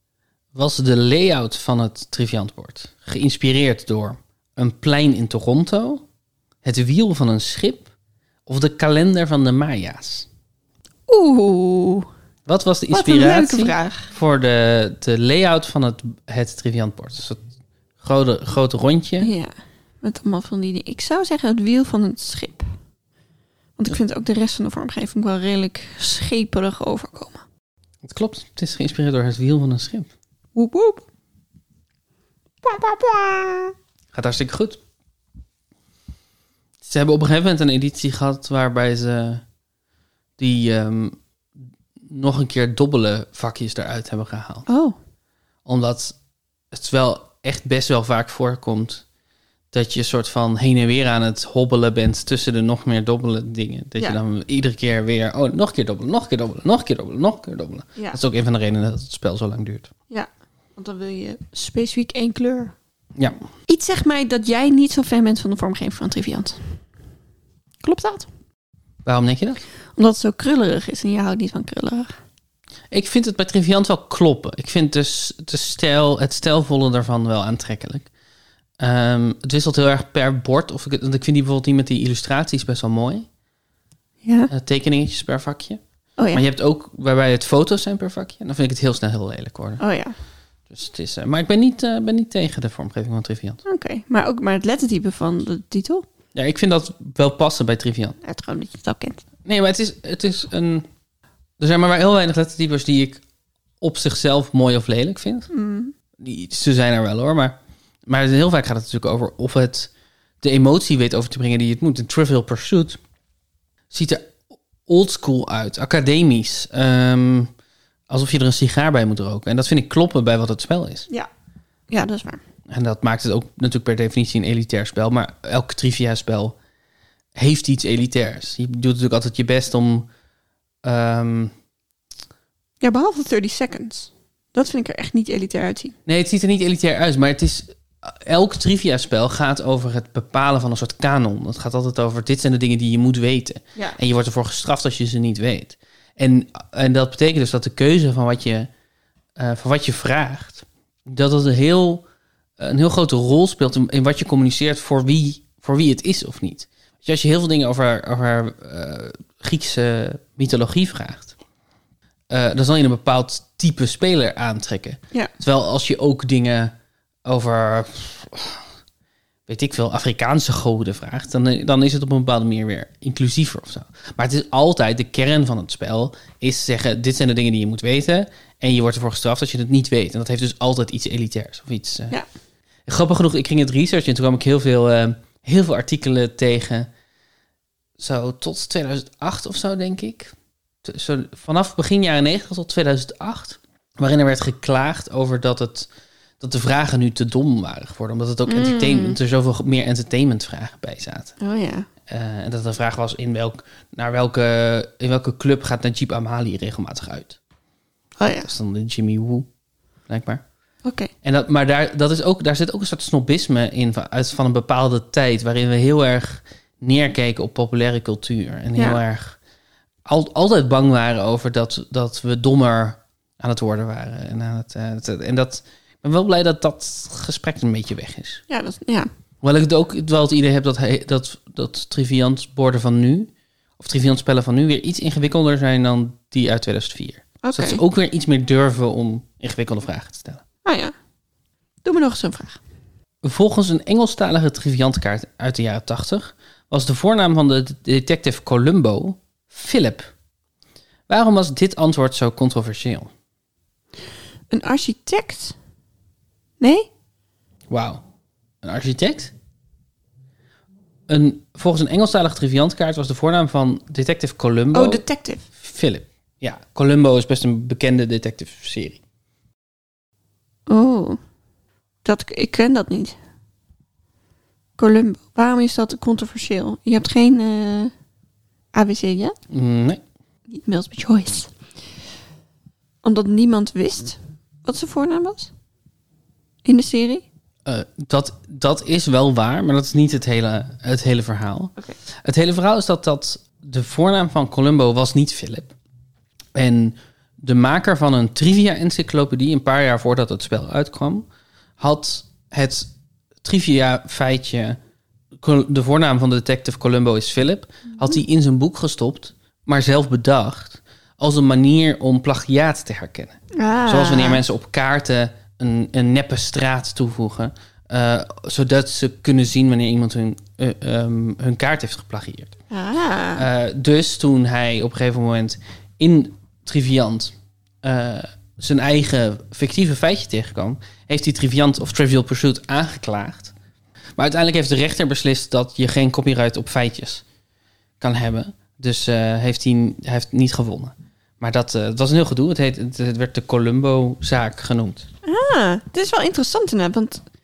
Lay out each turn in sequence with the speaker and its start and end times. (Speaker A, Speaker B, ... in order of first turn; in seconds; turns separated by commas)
Speaker A: 0.6-6.0, Speaker A: 6.6-7.9, Speaker A: 8.5-10.3, Speaker B: 11.1-12.1, Speaker A: 12.5-17.4, Speaker B: 12.9-14.1, Speaker A: 18.0-19.3, Speaker B: 19.2-19.5, Speaker B: 20.0-22.7, Speaker B: 23.8-27.4, Speaker A: 28.0-30.1, Speaker B: 30.6-31.0, Speaker B: 32.6-33.7, Speaker A: 34.1-34.8, Speaker A: 36.8-39.4, Speaker A: 40.4-41.2, Speaker A: 42.1-44.7, Speaker B: 44.7-45.0, Speaker A: 45.7-46.2, Speaker A: 46.7-49.0, Speaker A: 49.7-59.9, Speaker B: 60.1-62.8, Speaker B: 63.7-66.8, Speaker B: 67.8-68.3, Speaker A: 69.0-69.6, Speaker B: 70.0-72.2, Speaker A: 72.9-78.1, Speaker A: 78.8-83.3, Speaker B: 84.2-84.5, Speaker A: 84.5-85.8, Speaker B: 86.2-86.4, Speaker A: 86.3-89.8, Speaker B: 89.8-90.2, Speaker A: 90.7-93.6, Speaker B: 93.7-96.1, Speaker A: 96.3-98.2, Speaker B: 98.2-99.2, Speaker A: 99.5-100.9, Speaker A: 101.6-103.2, Speaker A: 103.8-105.5, Speaker B: 105.5-105.9, Speaker A: 106.2-109.9, Speaker A: 110.4-113.0, Speaker A: 113.9-117.5, Speaker A: 118.1-121.1, Speaker B: 121.9-122.4, Speaker A: 122.7-126.6, Speaker A: 127.4-130.1, Speaker A: 130.8-131.5, Speaker B: 132.8-136.0, Speaker A: 136.1-148.7, Speaker A: 149.4-152.1, Speaker A: 152.6-161.3, Speaker A: 162.3-166.7, Speaker A: 167.3-168.7, Speaker A: 169.5-182.2, Speaker A: 182.9-186.9, Speaker A: 188.0-195.9, Speaker A: 196.4-201.3, Speaker B: 198.5-199.2, Speaker B: 201.4-201.9, Speaker A: 202.1-207.4, Speaker B: 208.2-208.5, Speaker A: 208.4-209.5, Speaker A: 210.1-210.4, Speaker B: 210.8-211.1, Speaker A: 211.2-219.4, Speaker A: 220.1-228.4, Speaker B: 228.5-229.1, Speaker A: 229.4-240.4, Speaker B: 237.4-237.8, Speaker B: 240.6-240.9, Speaker B: 241.8-242.6, Speaker A: 243.2-250.1, Speaker A: 251.1-253.1, Speaker B: 254.5-255.6, Speaker B: 256.6-256.9, Speaker A: 257.7-258.0, Speaker A: 258.6-259.3, Speaker A: 261.1-265.0, Speaker B: 264.7-265.4, Speaker A: 265.6-269.0, Speaker B: 270.7-271.2, Speaker B: 272.1-273.2, Speaker B: 274.8-277.9, Speaker B: 278.7-279.4, Speaker A: 279.5-280.0, Speaker B: 280.5-281.5, Speaker B: 283.0-285.5, Speaker B: 286.6-287.2, Speaker A: 287.7-295.7, Speaker A: 296.6-301.3, Speaker A: 301.8-302.9, Speaker A: 303.4-304.8, Speaker A: 305.4-313.4, Speaker B: 313.5-314.4, Speaker A: 313.9-322.6, Speaker B: 322.7-323.4, Speaker A: 323.4-333.5, Speaker A: 334.2-337.2, Speaker A: 338.0-345.1, Speaker B: 345.2-347.2